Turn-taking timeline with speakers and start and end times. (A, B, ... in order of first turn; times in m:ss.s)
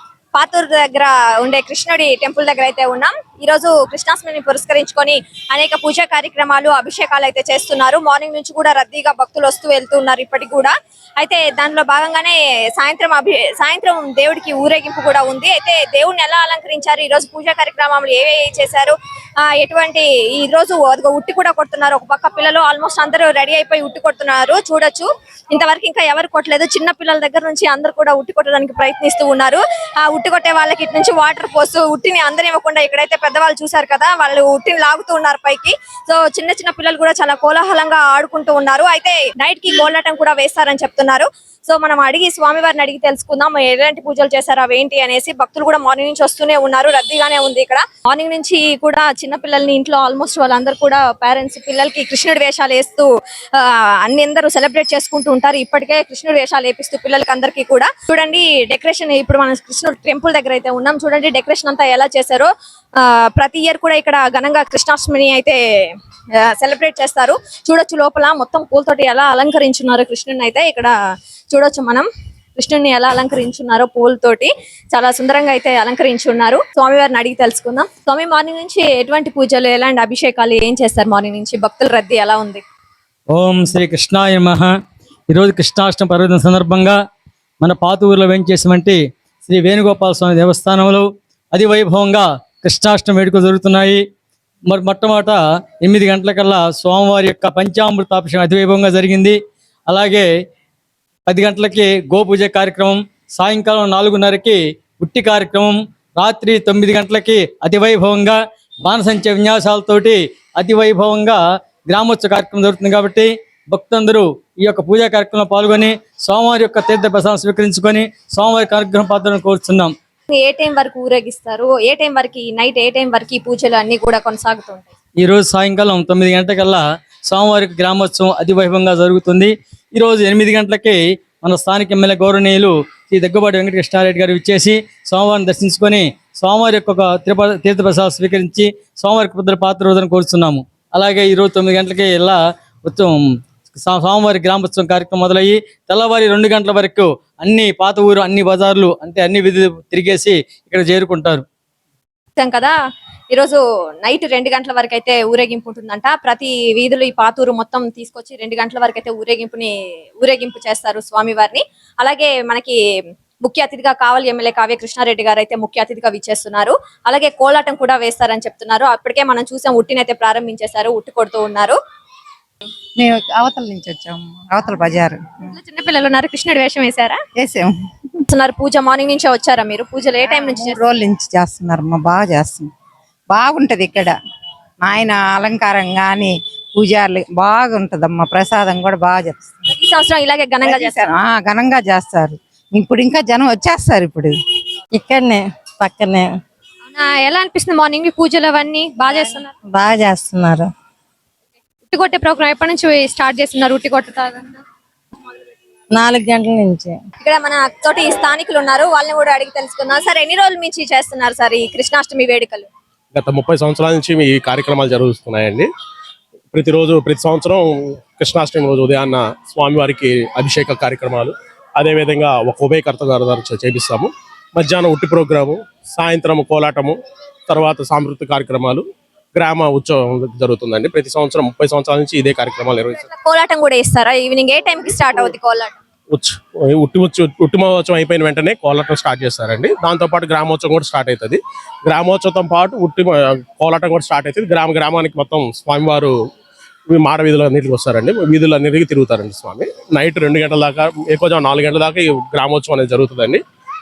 0:00.3-1:10.9 A
1:11.5-1:12.1 A
1:12.6-1:22.6 A
1:23.3-1:24.7 B
1:25.3-1:27.0 B
1:27.6-1:34.0 B
1:34.7-1:40.3 B
1:41.3-1:59.9 B
2:00.3-2:04.9 A
2:05.2-2:31.4 B
2:32.4-2:32.7 A
2:33.3-2:42.8 A
2:43.4-2:51.8 A
2:53.0-2:55.5 C
2:55.5-2:57.2 A
2:57.4-2:57.7 C
2:58.3-3:00.8 A
3:00.3-3:02.7 C
3:03.3-3:04.1 C
3:04.8-3:09.5 C
3:09.7-3:11.0 A
3:10.6-3:14.4 C
3:14.9-3:16.4 D
3:16.9-3:19.6 A
3:19.7-3:20.7 D
3:21.9-3:24.6 A
3:25.9-3:27.0 D
3:27.2-3:32.7 A
3:33.1-3:35.7 E
3:36.5-3:47.0 E
3:47.5-3:48.8 E
3:49.4-3:53.0 E
3:53.0-3:55.8 A
3:56.1-4:06.1 E
4:06.9-4:13.4 E